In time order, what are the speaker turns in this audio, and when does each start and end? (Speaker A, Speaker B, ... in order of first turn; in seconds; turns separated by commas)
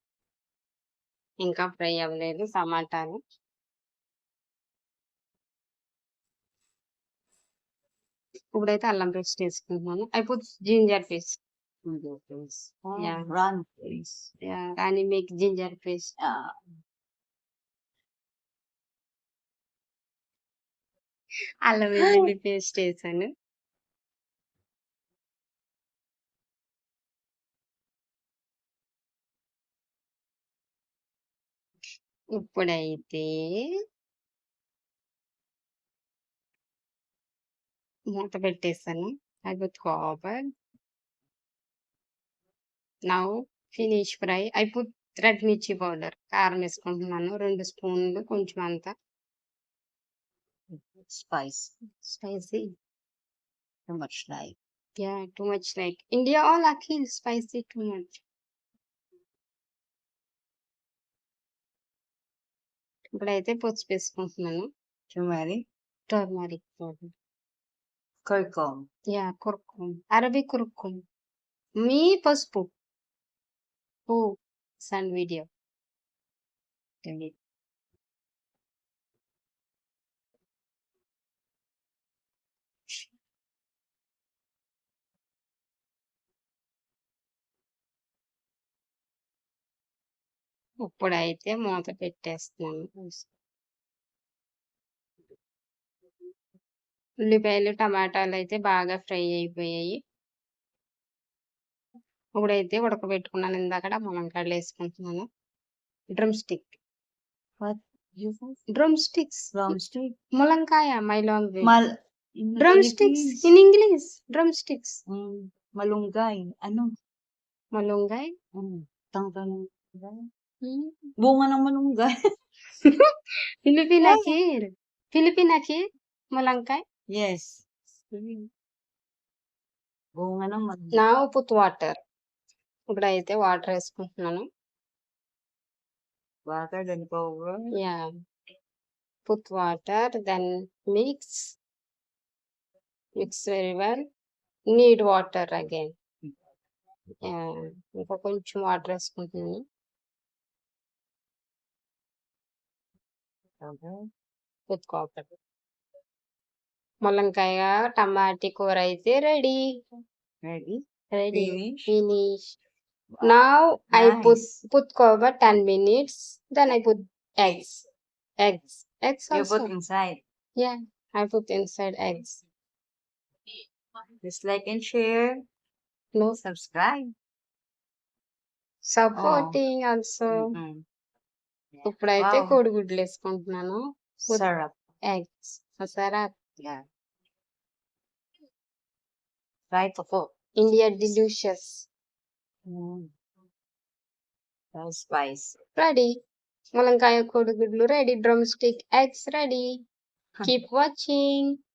Speaker A: 1.4-3.2, Speaker A: 8.5-11.4, Speaker B: 11.8-14.3, Speaker A: 13.0-13.3, Speaker A: 14.4-16.1, Speaker B: 16.2-16.6, Speaker A: 21.6-23.3, Speaker B: 22.0-22.3, Speaker A: 32.4-33.3, Speaker A: 38.1-40.4, Speaker A: 43.1-48.9, Speaker B: 50.7-51.7, Speaker A: 52.0-52.7, Speaker B: 53.9-54.5, Speaker A: 55.0-58.2, Speaker A: 63.1-64.7, Speaker B: 65.1-65.6, Speaker A: 66.1-67.1, Speaker B: 68.2-68.8, Speaker A: 69.1-71.0, Speaker A: 71.8-72.7, Speaker A: 74.1-75.5, Speaker B: 77.0-77.3, Speaker A: 90.8-93.1, Speaker A: 97.3-100.0, Speaker A: 102.3-105.2, Speaker A: 106.1-106.8, Speaker B: 107.6-108.6, Speaker A: 108.7-109.6, Speaker B: 109.5-110.1, Speaker A: 110.3-111.7, Speaker B: 111.6-111.9, Speaker B: 112.4-113.5, Speaker A: 112.6-115.0, Speaker B: 115.1-116.9, Speaker A: 117.7-118.3, Speaker B: 118.5-120.3, Speaker A: 120.6-121.0, Speaker B: 121.2-122.1, Speaker A: 123.7-125.8, Speaker B: 124.0-124.3, Speaker A: 126.3-126.8, Speaker B: 127.1-127.6, Speaker A: 128.1-128.5, Speaker B: 130.2-131.0, Speaker A: 130.9-132.0, Speaker A: 132.9-134.4, Speaker B: 136.4-137.7, Speaker A: 137.8-138.1, Speaker A: 139.2-141.5, Speaker A: 143.2-144.0, Speaker A: 144.7-145.9, Speaker A: 147.2-149.6, Speaker B: 153.6-154.0, Speaker A: 154.7-155.3, Speaker A: 157.0-159.6, Speaker B: 160.4-160.8, Speaker A: 161.1-162.6, Speaker B: 161.3-161.9, Speaker A: 163.2-167.8, Speaker B: 163.9-164.5, Speaker A: 168.4-169.7, Speaker B: 169.3-170.2, Speaker A: 170.6-172.4, Speaker B: 174.2-175.4, Speaker B: 176.4-177.1, Speaker A: 178.8-180.5, Speaker B: 179.2-179.6, Speaker B: 180.3-180.8, Speaker B: 181.8-182.6, Speaker A: 181.8-184.4, Speaker B: 184.3-184.7, Speaker A: 185.1-186.3, Speaker B: 186.6-186.8, Speaker B: 189.7-190.3, Speaker A: 190.6-191.9, Speaker B: 192.7-193.1, Speaker B: 194.7-195.6, Speaker A: 195.8-196.1, Speaker A: 196.7-199.7, Speaker A: 200.4-201.6